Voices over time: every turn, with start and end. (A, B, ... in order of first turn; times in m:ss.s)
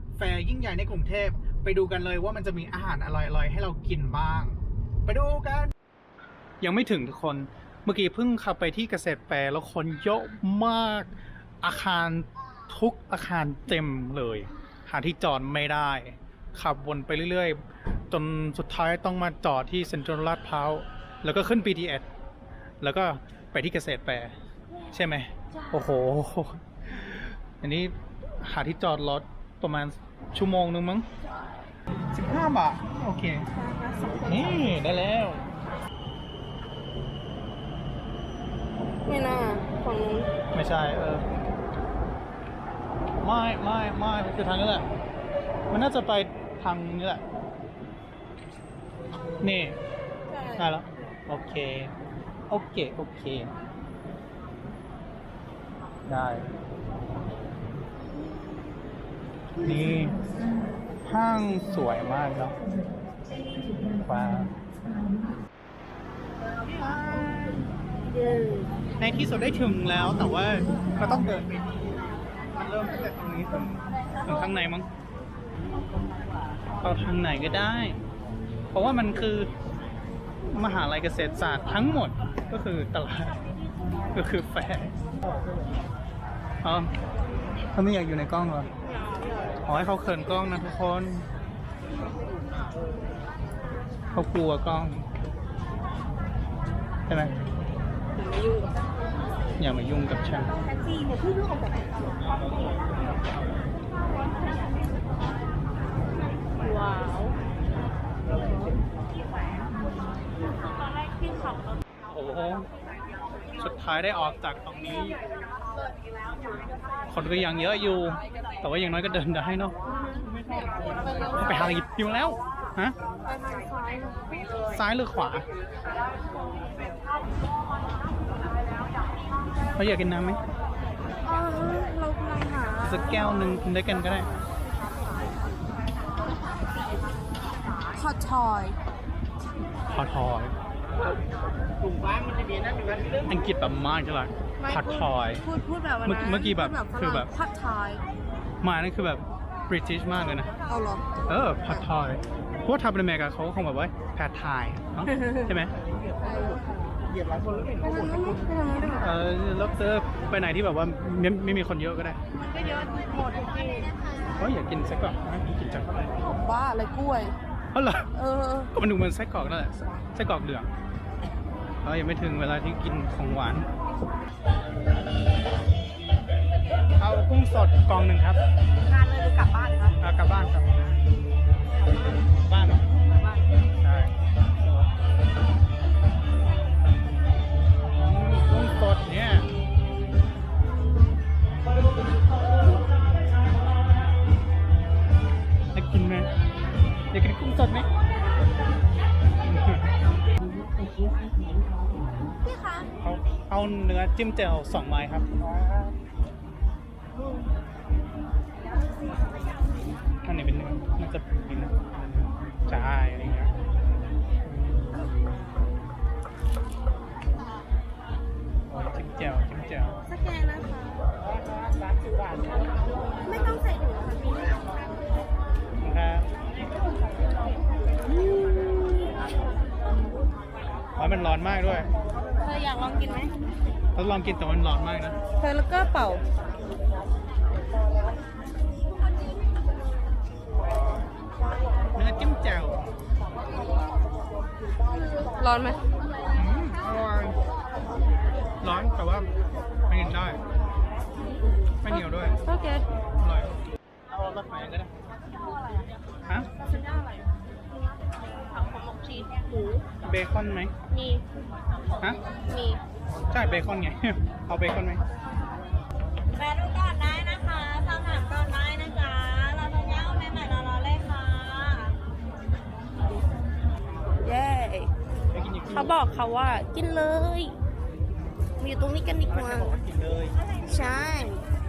0:00.2-0:05.7 A
0:06.6-0:22.0 A
0:22.8-0:24.3 A
0:24.9-0:31.1 A
0:32.1-0:33.5 A
0:33.5-0:34.8 B
0:34.2-0:35.5 A
0:39.0-0:40.3 B
0:40.5-0:41.2 A
0:43.2-0:44.8 A
0:45.7-0:47.2 A
0:49.4-0:49.8 A
0:50.3-0:51.0 B
0:50.6-0:51.9 A
0:52.5-0:53.5 A
0:56.1-0:56.5 A
0:59.6-1:00.2 A
1:01.0-1:02.6 A
1:04.0-1:04.5 A
1:06.6-1:07.7 A
1:08.2-1:08.6 B
1:09.0-1:11.6 A
1:12.5-1:14.9 A
1:16.8-1:18.0 A
1:18.7-1:19.5 A
1:20.5-1:23.4 A
1:24.1-1:24.9 A
1:26.6-1:26.9 A
1:27.7-1:28.7 A
1:28.8-1:29.3 B
1:29.6-1:31.2 A
1:34.1-1:35.0 A
1:37.1-1:37.3 A
1:38.2-1:38.8 B
1:39.6-1:40.5 A
1:40.6-1:42.1 B
1:46.5-1:47.4 B
1:51.0-1:51.6 B
1:52.0-1:52.7 A
1:53.6-1:55.2 A
1:57.1-1:59.8 A
2:00.7-2:01.4 B
2:01.3-2:03.0 A
2:03.2-2:04.4 B
2:04.7-2:05.4 A
2:09.8-2:10.4 A
2:11.2-2:13.3 B
2:12.8-2:14.3 A
2:17.9-2:18.8 B
2:19.9-2:20.5 A
2:23.3-2:25.4 A
2:24.6-2:28.0 B
2:26.0-2:27.3 A
2:28.6-2:30.5 A
2:30.6-2:31.1 B
2:31.3-2:35.7 A
2:35.1-2:35.4 B
2:36.2-2:36.6 B
2:37.8-2:39.1 B
2:38.9-2:42.2 A
2:42.3-2:44.0 B
2:44.4-2:46.1 A
2:46.3-2:47.3 B
2:47.7-2:48.1 A
2:48.1-2:48.7 B
2:48.7-2:50.7 A
2:51.8-2:53.7 A
2:57.0-2:58.4 A
2:58.8-3:00.0 B
3:00.0-3:01.0 A
3:02.4-3:02.8 A
3:02.9-3:03.5 B
3:03.8-3:04.1 A
3:07.9-3:09.5 A
3:15.7-3:16.3 A
3:17.1-3:17.9 A
3:19.4-3:19.9 A
3:22.4-3:22.9 B
3:23.0-3:25.9 A
3:30.2-3:31.7 A
3:32.7-3:33.5 A
3:34.4-3:35.4 A
3:38.7-3:40.0 A
3:40.0-3:41.1 B
3:43.2-3:44.8 B
3:45.8-3:46.3 A
3:48.0-3:49.2 B
3:51.0-3:51.9 A
3:52.4-3:53.3 B
3:54.0-3:55.2 A
3:55.4-3:56.2 B
4:02.0-4:02.8 A
4:05.2-4:05.8 B
4:06.4-4:07.4 A
4:08.6-4:09.3 A
4:09.9-4:10.4 A
4:11.8-4:12.4 A
4:11.9-4:12.8 B
4:13.2-4:13.5 A
4:14.1-4:14.9 A
4:16.6-4:17.3 B
4:18.4-4:19.8 B
4:20.0-4:20.7 A
4:20.9-4:21.2 B
4:22.3-4:22.8 B
4:23.3-4:25.0 A
4:26.4-4:32.0 C
4:34.2-4:34.9 B
4:35.3-4:35.9 A
4:35.7-4:37.6 B
4:38.6-4:39.8 B
4:39.3-4:40.4 A
4:40.6-4:41.4 B